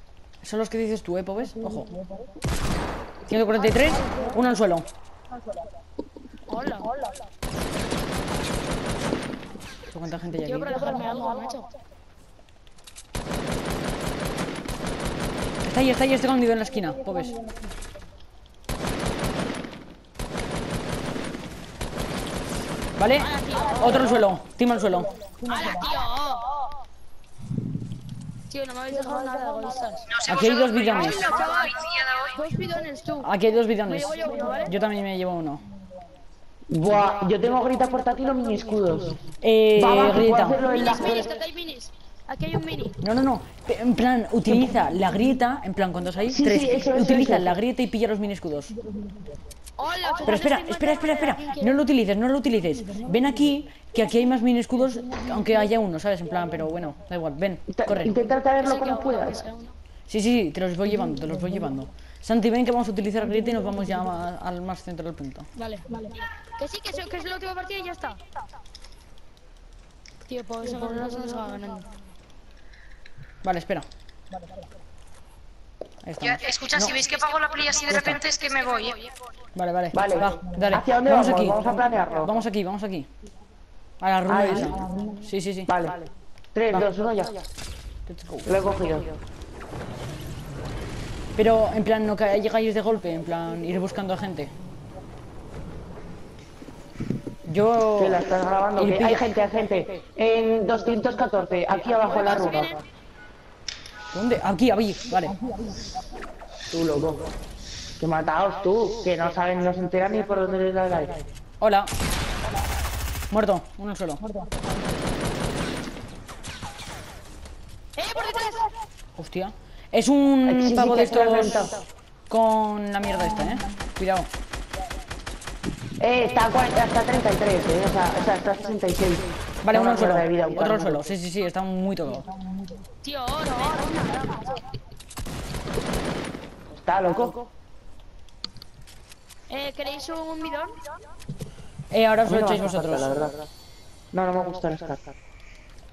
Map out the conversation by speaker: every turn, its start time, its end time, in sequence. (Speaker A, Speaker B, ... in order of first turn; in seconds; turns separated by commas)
Speaker A: 0.4-1.9, Speaker A: 3.3-4.8, Speaker B: 6.5-6.9, Speaker A: 9.9-11.0, Speaker B: 10.4-11.7, Speaker A: 15.6-17.4, Speaker A: 23.0-25.1, Speaker B: 23.2-24.1, Speaker B: 25.4-26.5, Speaker B: 28.5-30.1, Speaker C: 30.1-32.4, Speaker A: 30.3-31.3, Speaker B: 30.9-31.8, Speaker B: 32.3-33.3, Speaker A: 33.2-35.6, Speaker B: 33.8-34.7, Speaker D: 36.7-41.4, Speaker A: 39.4-40.6, Speaker B: 40.6-42.9, Speaker A: 43.0-48.7, Speaker D: 44.5-44.7, Speaker D: 46.3-47.6, Speaker B: 49.8-51.8, Speaker A: 50.2-58.1, Speaker D: 57.7-59.4, Speaker B: 58.6-59.7, Speaker A: 60.1-65.5, Speaker B: 65.5-68.2, Speaker B: 70.2-71.9, Speaker A: 73.4-73.8, Speaker A: 76.0-76.9, Speaker C: 76.2-79.1, Speaker A: 77.9-78.2, Speaker A: 79.5-83.1, Speaker D: 79.9-82.3, Speaker A: 84.0-85.7, Speaker D: 84.3-84.8, Speaker D: 85.7-87.5, Speaker A: 88.1-88.6, Speaker D: 88.4-89.2, Speaker A: 91.3-94.5, Speaker A: 97.5-98.2, Speaker D: 98.0-102.8, Speaker A: 98.8-99.2, Speaker B: 102.1-102.8, Speaker A: 104.1-105.3, Speaker D: 106.7-107.2, Speaker D: 108.0-111.2, Speaker A: 111.6-111.9, Speaker A: 113.3-114.2, Speaker B: 118.0-118.7, Speaker A: 119.2-121.7, Speaker D: 120.5-121.8, Speaker A: 122.3-124.3, Speaker D: 126.0-131.1, Speaker A: 129.6-132.2, Speaker B: 133.0-134.6, Speaker D: 136.8-137.4, Speaker B: 139.5-140.7, Speaker A: 141.9-143.2, Speaker D: 142.2-143.5, Speaker D: 144.1-145.1